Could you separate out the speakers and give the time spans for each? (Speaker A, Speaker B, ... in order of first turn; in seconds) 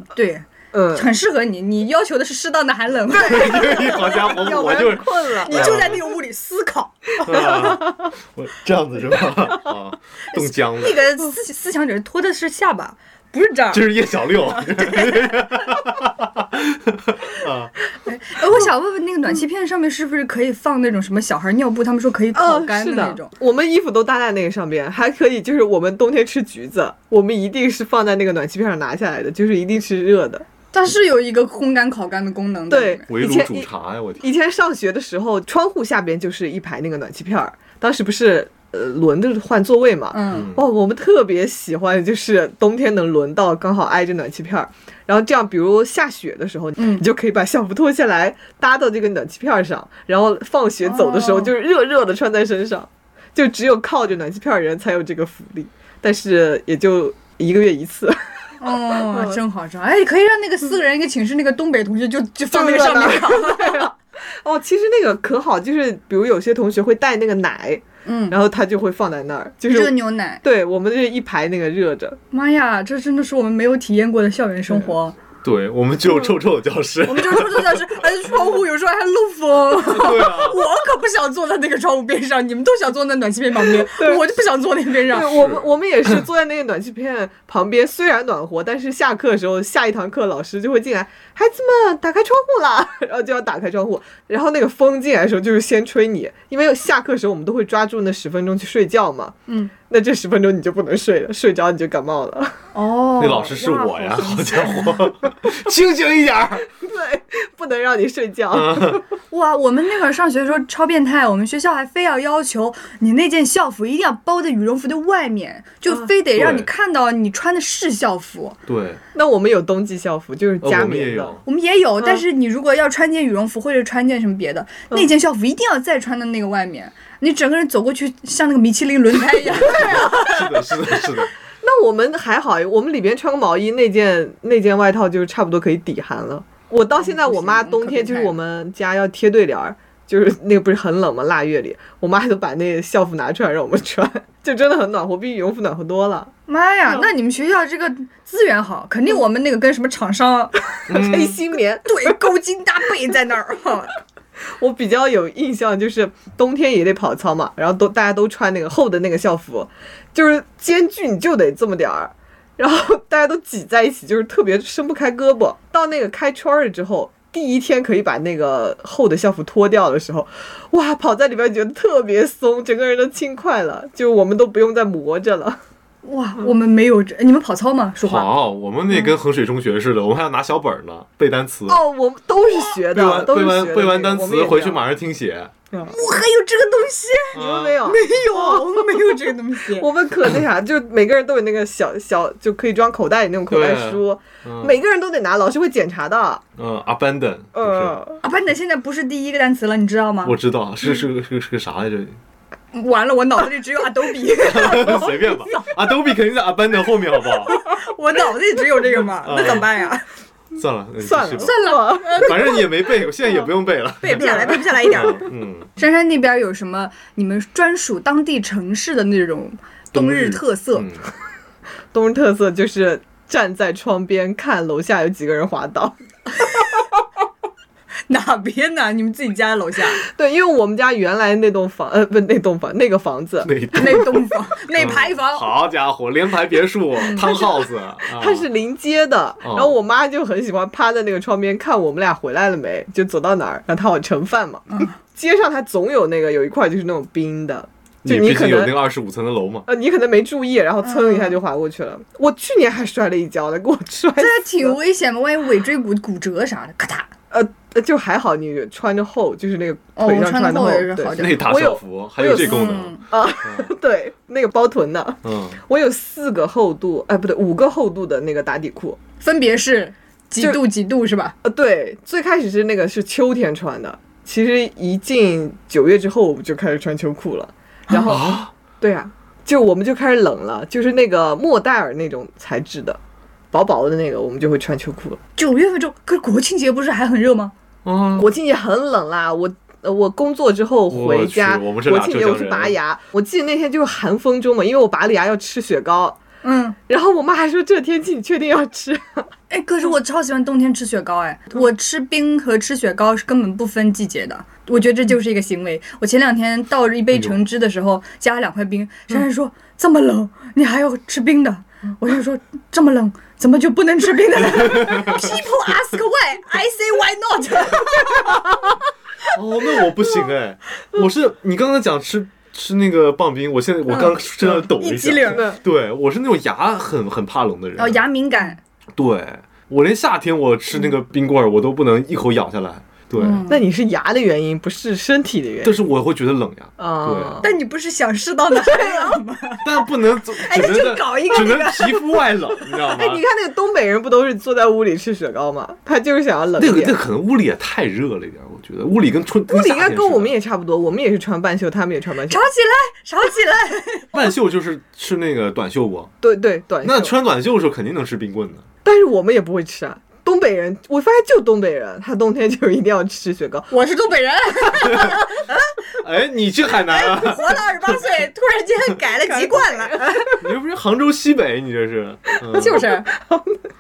Speaker A: 0.1-3.7, 5.4-7.5, 10.3-13.9, 14.5-15.3, 18.1-23.3, 30.7-33.0, 40.1-40.5, 46.8-47.1, 50.8-51.5, 58.6-63.9, 68.0-68.4, 69.7-70.4, 72.3-75.2, 77.0-85.5, 99.5-99.7, 102.7-105.1, 109.3-118.6, 121.5-130.7, 137.0-138.3, 146.5-151.2, 151.8-154.0, 176.0-178.3, 185.9-189.9, 198.2-200.4, 202.7-205.7, 207.5-210.0, 211.4-212.7, 214.0-215.2, 215.8-220.9, 228.1-230.0, 233.7-235.5, 237.0-237.5, 250.8-251.4, 254.2-257.1, 260.0-261.6, 262.3-263.1, 269.2-271.4, 277.9-278.2, 285.4-287.5, 296.4-296.8, 299.5-318.4, 323.9-325.5, 327.8-328.6, 333.2-333.6, 337.4-342.1, 352.3-354.1, 363.7-365.5, 366.8-370.2, 372.5-373.1
Speaker B: 0.7-1.1, 3.1-5.8, 7.3-7.8, 22.3-30.5, 32.7-33.7, 34.2-59.4, 62.5-72.2, 74.7-74.9, 83.7-84.3, 85.0-99.4, 99.9-102.6, 106.8-109.0, 119.1-121.4, 131.6-146.3, 150.9-152.2, 154.6-175.6, 181.7-184.9, 185.7-186.0, 187.3-189.1, 189.7-196.4, 197.6-198.2, 211.0-212.6, 214.1-214.9, 221.9-226.6, 230.0-233.5, 238.1-248.8, 249.7-254.8, 257.3-269.0, 271.4-283.0, 283.5-285.2, 288.2-296.2, 296.9-299.3, 325.3-325.6, 333.5-335.8, 336.8-337.5, 338.6-339.2, 342.8-347.0, 349.5-352.4, 356.2-357.2, 358.8-363.7, 369.3-370.4, 373.2-373.6
Speaker C: 3.1-6.0, 7.2-11.0, 13.7-17.7, 33.1-34.2, 40.3-40.7, 75.4-77.9, 79.9-80.6, 85.3-85.7, 103.2-106.7, 108.5-109.0, 116.4-116.7, 118.7-119.0, 120.6-121.4, 129.5-131.3, 150.9-151.4, 178.0-181.8, 182.9-185.5, 187.3-187.9, 193.5-194.8, 196.6-198.0, 200.2-202.2, 204.4-207.6, 209.2-209.7, 210.6-211.6, 212.1-215.7, 219.9-221.1, 233.4-238.5, 239.4-239.8, 248.1-249.7, 261.1-263.7, 265.2-265.6, 278.1-278.5, 287.9-288.3, 290.9-292.8, 314.6-315.2, 319.3-328.0, 328.9-333.4, 335.6-337.4, 339.6-343.2, 346.6-350.4, 354.1-356.1, 356.8-358.7, 366.0-368.0, 370.4-372.9